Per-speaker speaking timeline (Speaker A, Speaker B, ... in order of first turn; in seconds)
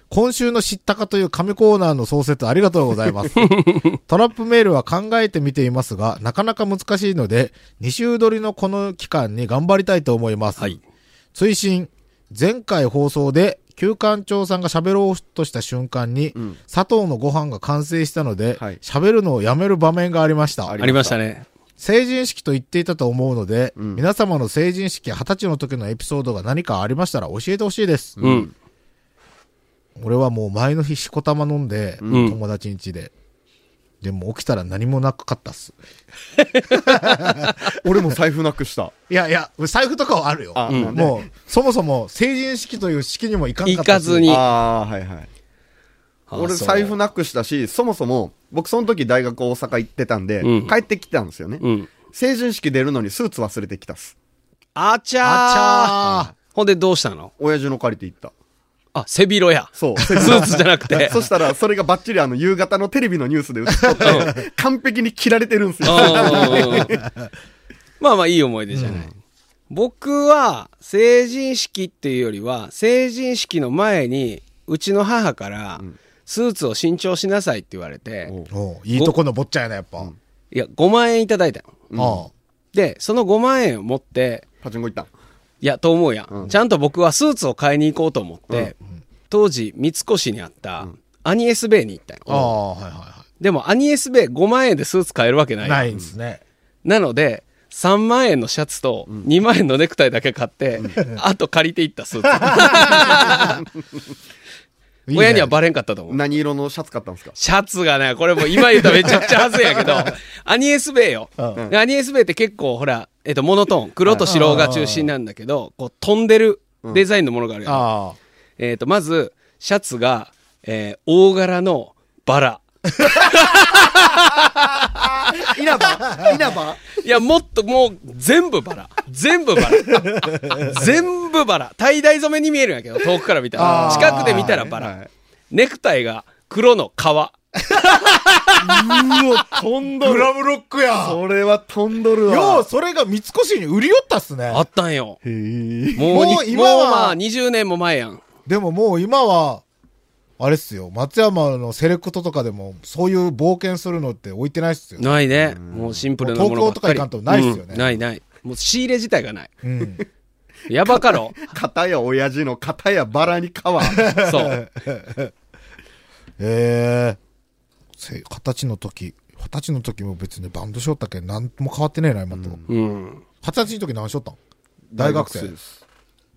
Speaker A: 0.1-10.8, 11.3-20.8, 21.8-28.2, 30.0-33.1, 34.0-35.8, 36.7-38.2, 39.1-44.4, 55.2-56.3, 60.1-60.6, 63.9-64.4, 66.0-66.9, 68.7-69.1, 78.5-80.1, 82.0-82.3, 92.3-93.2, 95.6-96.4, 102.4-103.6, 105.1-105.5, 114.2-115.1, 117.7-118.2, 123.3-123.9, 130.3-130.9, 133.6-134.6, 137.7-139.5, 140.0-141.2, 142.3-144.7, 146.1-147.2, 148.5-149.6, 150.4-155.1, 156.2-158.0, 159.6-160.0, 163.8-165.3, 166.4-167.2, 168.0-172.6, 173.4-174.4, 175.0-175.5
Speaker B: 3.4-4.0, 20.8-21.5, 28.2-28.5, 32.1-32.4, 36.5-36.8, 40.7-41.0, 43.7-44.4, 46.3-47.0, 50.4-50.7, 51.6-51.9, 54.8-57.3, 59.0-61.2, 64.0-64.3, 65.8-66.9, 68.0-69.1, 69.7-78.3, 80.5-81.8, 82.7-84.5, 85.6-88.8, 89.3-92.5, 93.4-95.9, 96.8-103.6, 105.1-106.2, 107.4-117.8, 118.6-124.3, 127.0-134.9, 135.5-137.3, 144.5-145.2, 146.0-148.2, 155.0-159.5, 160.7-161.3, 164.2-164.6, 172.7-173.2
Speaker C: 20.7-21.2, 23.8-24.0, 28.2-28.5, 32.0-32.4, 37.7-38.9, 40.5-41.3, 44.3-45.3, 46.4-54.1, 57.4-58.3, 59.8-67.0, 81.9-82.3, 84.6-85.1, 106.1-107.4, 108.8-109.3, 114.1-114.7, 125.3-126.8, 133.6-135.1, 138.6-140.3, 140.9-142.7, 145.2-146.2, 155.4-156.0, 160.8-164.1, 172.3-172.7, 174.9-175.8